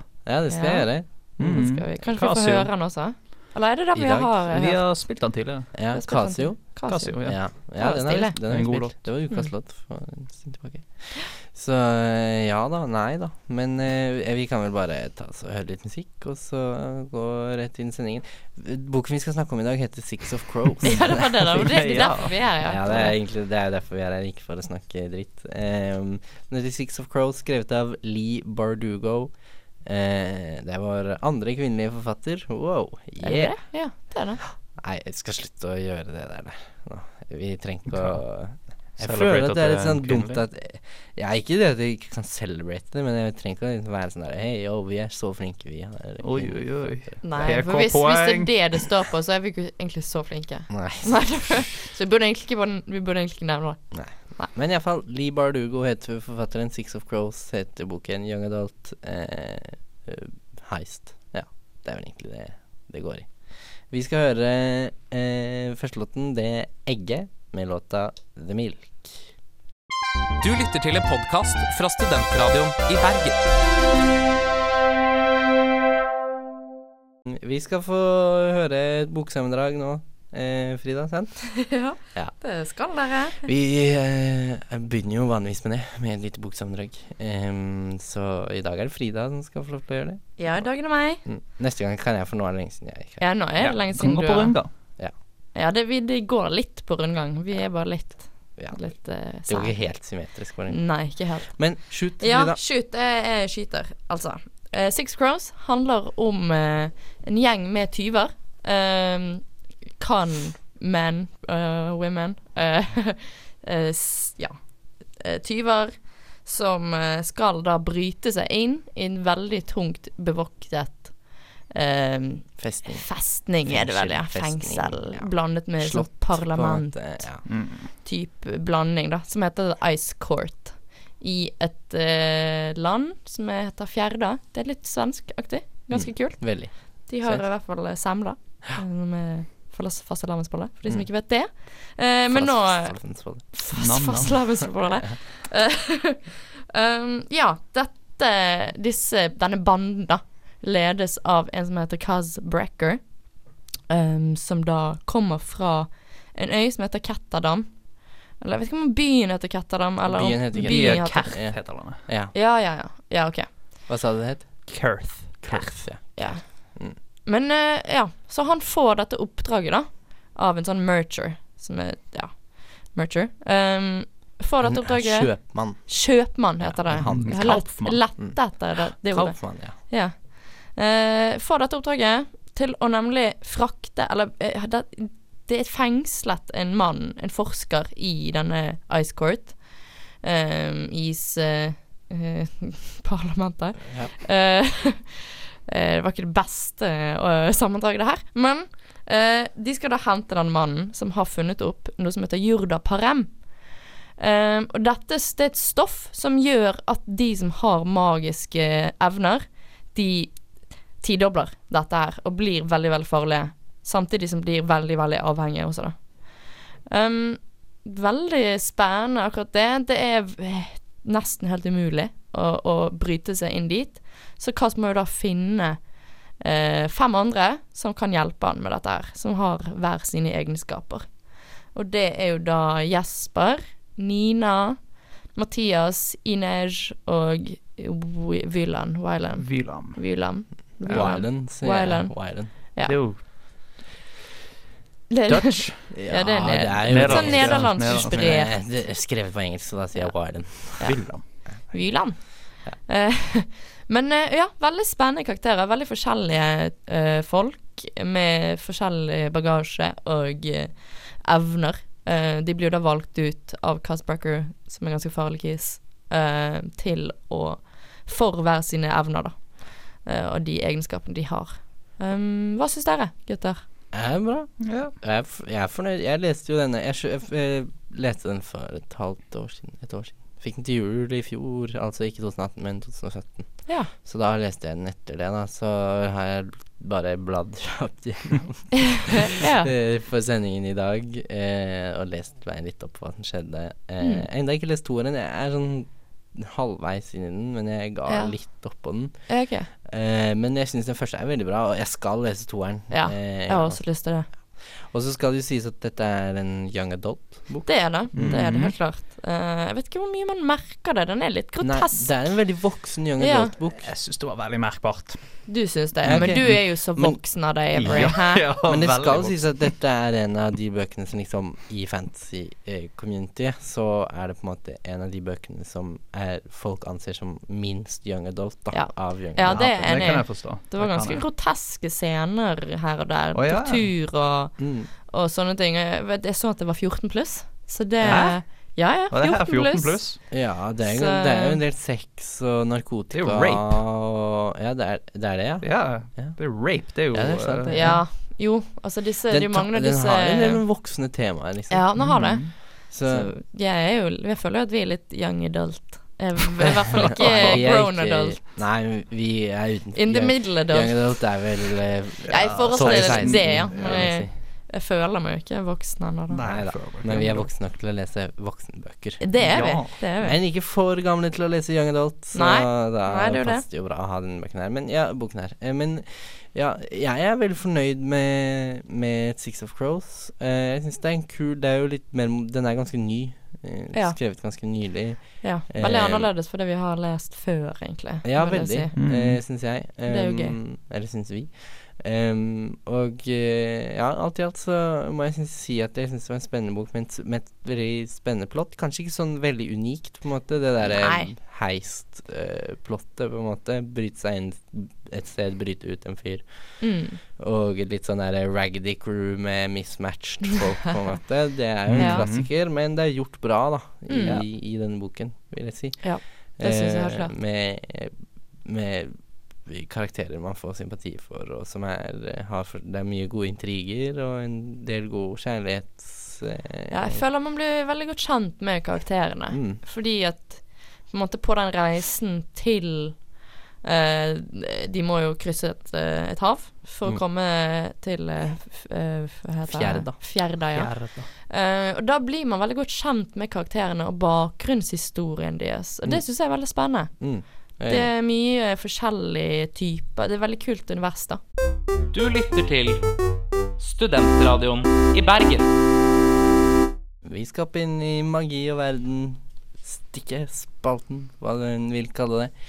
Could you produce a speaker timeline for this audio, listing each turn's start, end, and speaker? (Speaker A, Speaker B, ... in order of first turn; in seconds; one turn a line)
Speaker A: 0.2-1.1
Speaker B: 0.5-4.9
Speaker C: 1.4-2.7
Speaker A: 3.9-4.3
Speaker C: 4.5-5.7
Speaker A: 5.7-21.8
Speaker B: 5.9-8.4
Speaker C: 6.8-7.4
Speaker C: 8.4-9.0
Speaker B: 20.8-23.1
Speaker C: 21.5-22.6
Speaker A: 22.6-33.6
Speaker B: 33.2-34.4
Speaker A: 34.7-47.5
Speaker C: 37.9-38.2
Speaker C: 39.0-40.4
Speaker C: 46.2-48.6
Speaker B: 47.2-54.5
Speaker A: 50.7-51.4
Speaker A: 53.9-69.3
Speaker D: 70.4-73.4
Speaker A: 77.2-81.5
Speaker B: 81.6-83.5
Speaker A: 83.4-90.7
Speaker B: 90.4-91.2
Speaker A: 91.2-93.2
Speaker B: 93.2-94.6
Speaker C: 93.6-94.7
Speaker B: 95.5-109.5
Speaker A: 98.6-98.9
Speaker A: 99.5-102.6
Speaker B: 110.0-153.2
Speaker A: 122.6-127.4
Speaker C: 127.5-127.9
Speaker A: 135.9-137.4
Speaker A: 142.3-143.5
Speaker C: 143.7-144.5
Speaker B: 153.9-161.4
Speaker A: 160.1-162.3
Speaker C: 160.1-162.0
Speaker B: 162.3-163.7
Speaker A: 163.8-164.7
Speaker C: 164.7-165.8
Speaker A: 165.4-167.0
Speaker B: 166.1-243.2
Speaker A: 174.6-179.8
Speaker C: 177.0-178.0
Speaker C: 239.4-240.0
Speaker A: 240.8-242.5
Speaker C: 240.8-241.2
Speaker C: 242.8-243.2
Speaker B: 245.1-248.6
Speaker C: 245.2-245.9
Speaker A: 245.9-251.1
Speaker C: 246.8-248.3
Speaker B: 249.9-273.6
Speaker C: 250.8-251.2
Speaker A: 273.9-308.4
Speaker C: 274.6-274.9
Speaker B: 283.6-283.9
Speaker B: 289.2-289.7
Speaker B: 298.1-299.7
Speaker B: 302.9-304.3
Speaker B: 307.6-312.4
Speaker C: 308.1-308.8
Speaker A: 311.6-313.9
Speaker B: 313.2-313.5
Speaker C: 313.7-315.5
Speaker B: 315.5-318.5
Speaker A: 316.0-317.2
Speaker C: 316.0-316.6
Speaker C: 317.7-319.7
Speaker A: 317.9-330.2
Speaker B: 328.7-341.6
Speaker C: 329.4-331.2
Speaker C: 333.3-333.9
Speaker A: 334.6-334.9
Speaker C: 338.0-338.4
Speaker A: 338.0-338.4
Speaker C: 339.1-340.2
Speaker A: 340.3-348.1
Speaker C: 343.1-343.8
Speaker C: 345.6-348.0
Speaker B: 347.7-350.6
Speaker A: 349.3-353.3
Speaker B: 351.7-358.4
Speaker C: 352.0-352.5
Speaker A: 357.0-364.3
Speaker C: 357.1-357.8
Speaker B: 359.9-361.2
Speaker C: 362.3-364.1
Speaker B: 362.3-366.6
Speaker C: 366.3-367.5
Speaker A: 366.4-386.3
Speaker B: 369.2-370.4
Speaker C: 369.4-369.9
Speaker B: 372.3-373.6
Speaker B: 383.9-384.2
Speaker B: 385.4-389.0
Speaker A: 388.2-427.2
Speaker C: 388.9-389.4
Speaker B: 390.0-390.6
Speaker B: 400.9-401.3
Speaker B: 406.8-407.2
Speaker C: 411.9-412.5
Speaker B: 412.0-412.2
Speaker B: 414.1-414.4
Speaker C: 414.2-414.4
Speaker B: 416.0-417.3
Speaker B: 426.9-451.4
Speaker A: 429.5-429.8
Speaker A: 439.7-440.2
Speaker C: 440.7-441.3
Speaker A: 447.2-448.1
Speaker D: 452.1-453.0
Speaker D: 453.8-455.7
Speaker A: 457.2-462.5